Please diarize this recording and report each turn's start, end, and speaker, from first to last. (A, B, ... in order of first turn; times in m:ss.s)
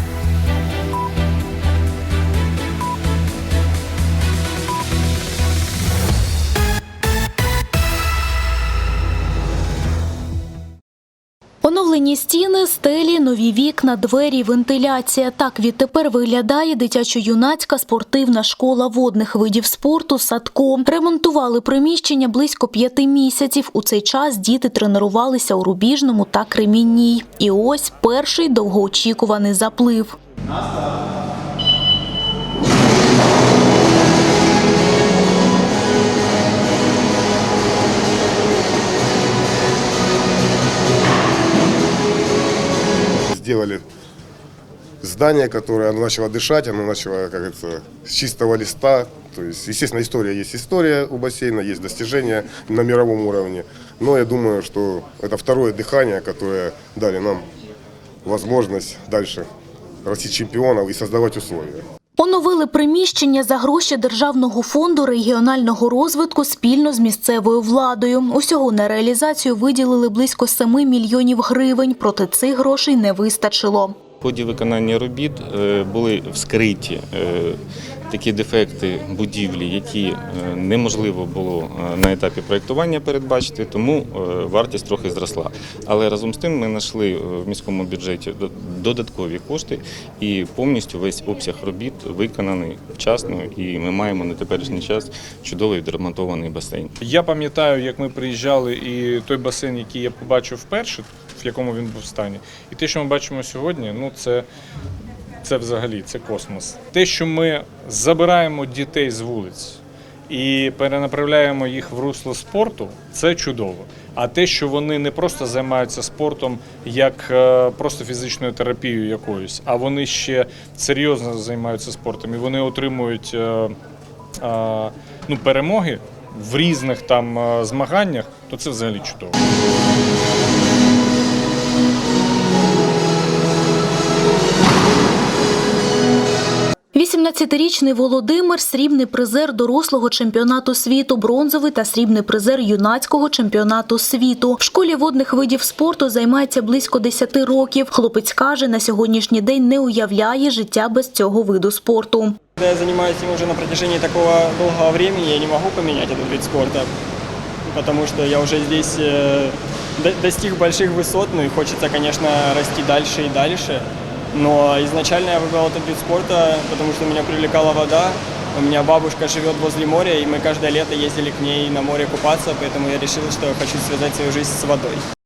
0:11.6-0:30.2 A
0:43.3-0:43.8 B
0:45.0-0:57.4 B
0:58.2-0:59.4 B
1:00.0-1:01.8 B
1:02.2-1:14.0 A
1:14.2-1:17.6 C
1:18.1-1:36.9 C
1:37.0-1:44.5 D
1:45.4-2:03.7 D
2:04.4-2:09.4 D
2:16.9-2:32.4 A
2:32.6-2:36.9 E
2:37.7-2:55.0 E